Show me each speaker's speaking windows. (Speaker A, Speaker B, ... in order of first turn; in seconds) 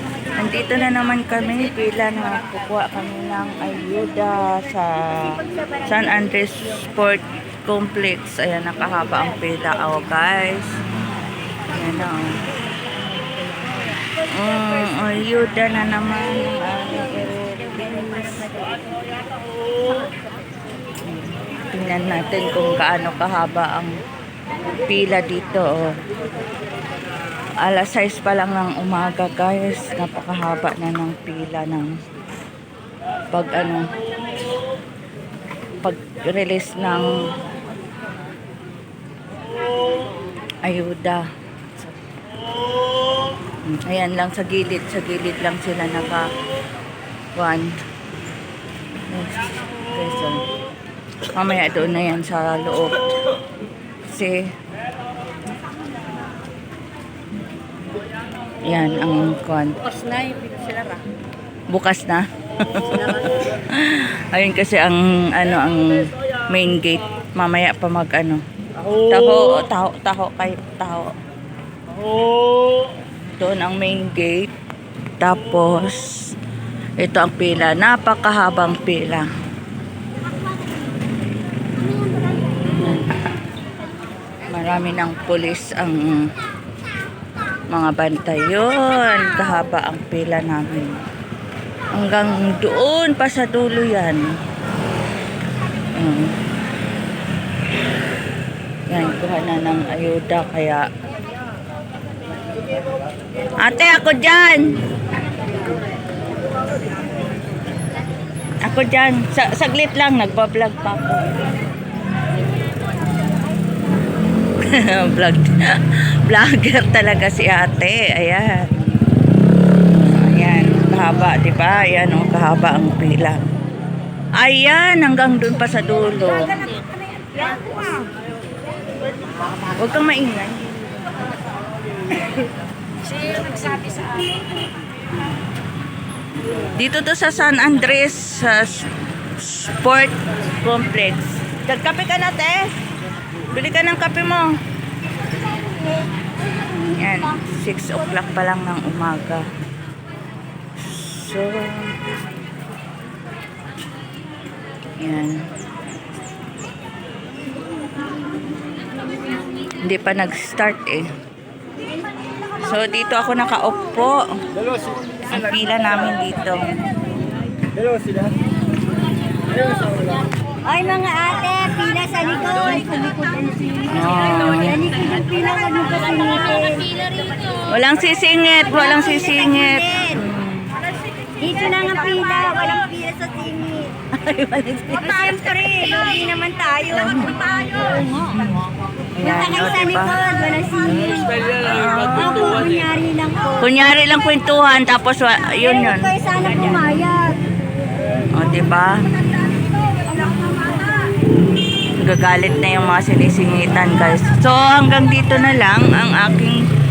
Speaker A: 0.4-10.7, 11.7-12.3, 14.3-18.5, 21.1-23.9, 24.9-25.9, 27.6-31.9, 33.3-33.9, 35.8-37.1, 40.6-41.2, 43.7-46.3, 47.4-47.7, 49.1-50.4, 51.4-53.0, 54.1-54.4, 58.7-59.7, 61.7-68.4, 69.1-71.1, 73.4-74.5, 75.2-76.2, 77.0-79.3, 82.7-83.1, 84.5-86.2, 87.7-91.0, 91.9-94.3, 96.0-96.3, 98.9-100.8, 103.6-104.6, 108.7-111.2, 114.6-118.7, 119.9-123.5, 124.4-126.7, 129.8-130.9, 136.8-142.7, 143.5-144.5, 146.9-149.4, 150.8-151.9, 155.0-155.5, 159.8-161.1, 162.6-164.3, 165.3-166.7, 173.9-174.7, 177.7-180.7, 184.2-185.9, 186.9-187.4, 189.2-190.2, 191.6-192.2, 193.6-196.1, 198.3-199.0, 202.0-206.6
Speaker B: 170.7-173.9, 174.6-177.3, 178.7-180.2, 181.4-183.9, 185.0-188.3, 189.2-193.6, 195.8-197.4, 200.3-200.7